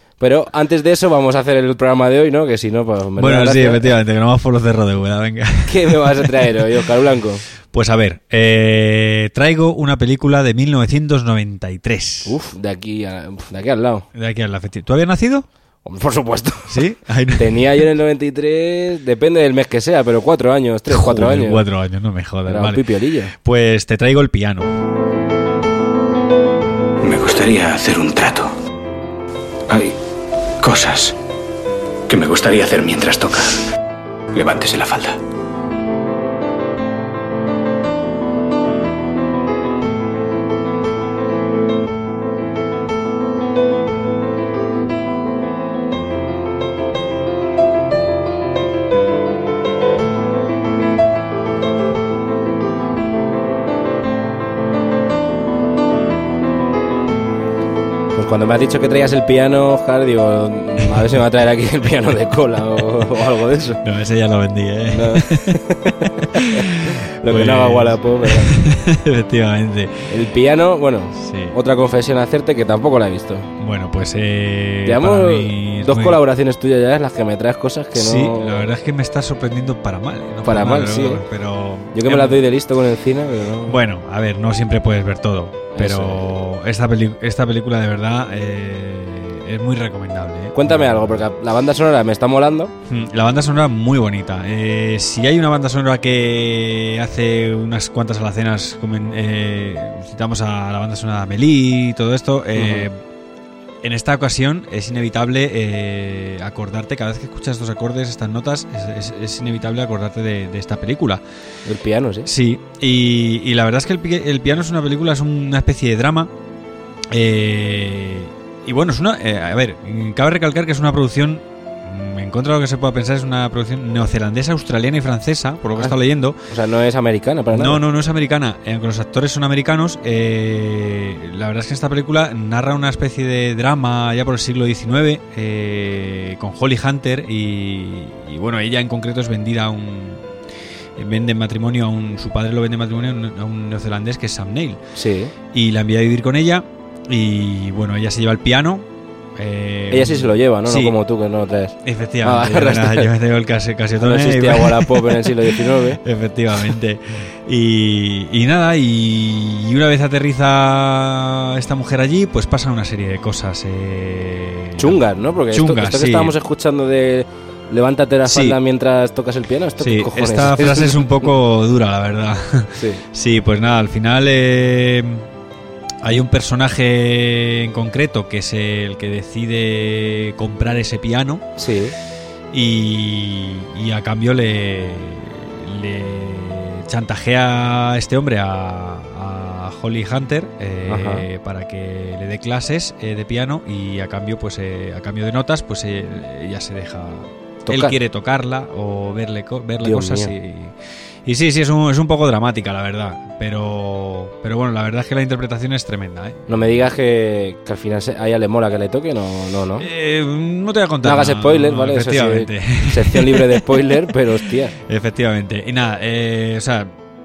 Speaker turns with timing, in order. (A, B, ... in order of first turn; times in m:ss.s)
0:00.2-0:04.0 A
0:03.2-0:06.7 B
0:05.7-0:07.4 A
0:07.7-0:12.4 B
0:12.2-0:14.1 A
0:14.1-0:15.5 B
0:15.8-0:21.6 A
0:16.7-0:17.8 B
0:20.9-0:22.8 B
0:22.5-0:23.3 A
0:23.4-0:24.7 B
0:27.0-0:28.5 C
0:29.7-0:30.0 C
0:30.6-0:31.2 C
0:32.1-0:33.6 C
0:34.3-0:35.2 C
0:58.2-1:03.8 A
1:03.8-1:10.1 B
1:04.9-1:06.6 A
1:07.2-1:08.5 A
1:10.1-1:13.5 A
1:11.2-1:11.6 B
1:13.6-1:16.2 B
1:14.8-1:18.7 A
1:18.0-1:22.4 B
1:20.4-1:21.2 A
1:21.9-1:23.8 A
1:23.7-1:31.2 B
1:25.8-1:26.2 A
1:30.5-1:32.7 A
1:32.9-1:43.0 B
1:42.6-1:42.9 A
1:43.8-1:51.2 B
1:51.7-1:52.3 A
1:52.3-1:56.3 B
1:57.1-2:06.4 B
2:06.5-2:07.8 A
2:07.5-2:20.3 B
2:21.0-2:24.8 B
2:25.0-2:25.3 A
2:25.5-2:31.0 B
2:29.9-2:33.1 A
2:31.8-2:35.4 B
2:34.0-2:36.0 A
2:36.0-2:46.4 B
2:44.8-2:51.3 A
2:48.2-2:48.6 B
2:49.8-2:55.2 B
2:52.8-2:53.0 A
2:56.0-3:01.4 B
3:01.6-3:02.0 A
3:02.5-3:20.7 B
3:10.9-3:11.2 A
3:17.7-3:18.0 A
3:19.8-3:20.3 A
3:21.2-3:26.4 B
3:26.5-3:29.9 A
3:29.8-3:33.7 B
3:31.0-3:34.8 A
3:34.9-3:36.9 B